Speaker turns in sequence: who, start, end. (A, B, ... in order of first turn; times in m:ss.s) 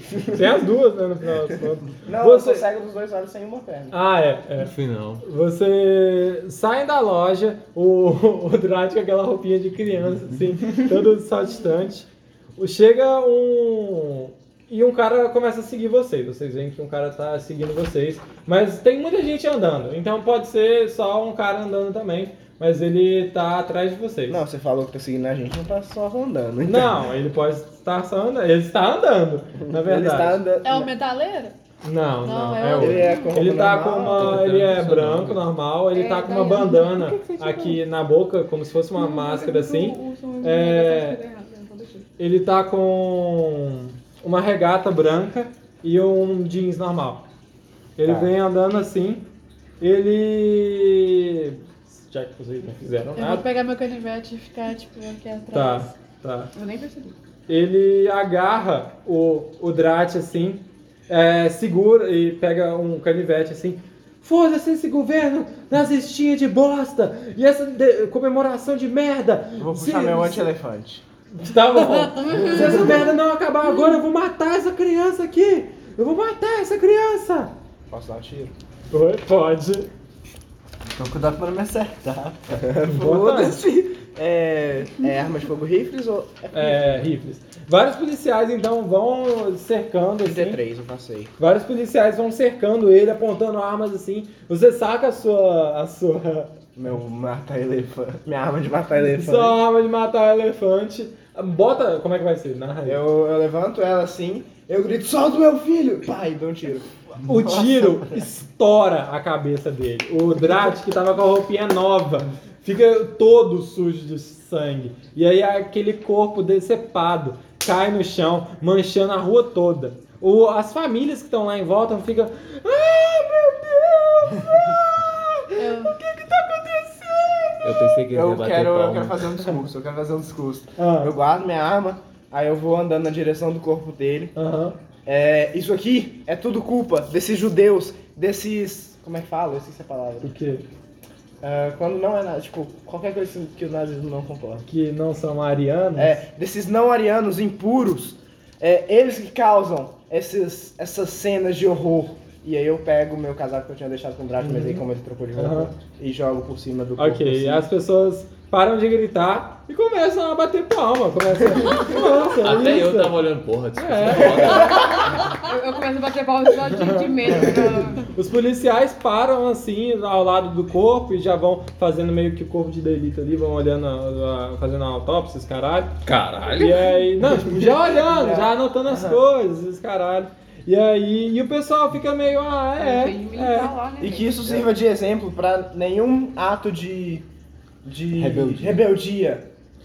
0:00.3-0:02.7 A
0:02.1-0:04.0 B
0:03.9-0:24.4 A
0:04.6-0:05.2 C
0:24.3-0:27.0 B
0:26.6-0:30.4 A
0:29.7-0:30.9 B
0:30.6-0:31.6 D
0:31.8-0:41.2 A
0:32.2-0:33.4 D
0:32.8-0:34.4 B
0:34.1-0:35.4 C
0:35.9-0:37.8 E
0:39.0-0:42.1 E
0:42.2-0:47.3 A
0:48.0-0:49.3 A
0:48.1-0:48.3 B
0:49.8-0:53.5 A
0:53.1-0:53.4 B
0:53.2-0:55.9 D
0:55.5-0:56.5 A
0:56.6-0:57.2 E
0:57.5-1:10.5 A
1:09.6-1:11.0 B
1:11.3-1:17.5 A
1:17.9-1:18.5 B
1:18.9-1:19.9 A
1:20.8-1:22.6 F
1:22.6-1:27.1 B
1:22.9-1:23.6 A
1:26.5-1:30.6 A
1:30.2-1:31.3 B
1:31.4-1:36.5 A
1:36.8-1:39.6 B
1:39.2-1:43.0 A
1:42.9-1:46.9 B
1:47.2-2:08.0 A
1:47.2-1:48.2 F
2:05.5-2:06.0 D
2:07.6-2:09.3 C
2:08.1-2:14.3 B
2:10.8-2:11.1 A
2:14.4-2:14.8 A
2:15.1-2:20.3 B
2:20.2-2:20.7 A
2:21.4-2:24.7 B
2:24.7-2:26.2 A
2:26.0-2:37.7 B
2:34.4-2:35.7 A
2:37.0-2:43.2 A
2:42.4-2:45.1 C
2:43.8-2:44.9 A
2:44.6-2:48.1 E
2:46.7-3:03.7 A
2:56.0-2:57.0 C
2:57.6-2:59.2 B
3:02.8-3:04.4 E
3:04.0-3:07.3 B
3:04.4-3:04.7 F
3:07.8-3:09.5 B
3:08.1-3:08.8 F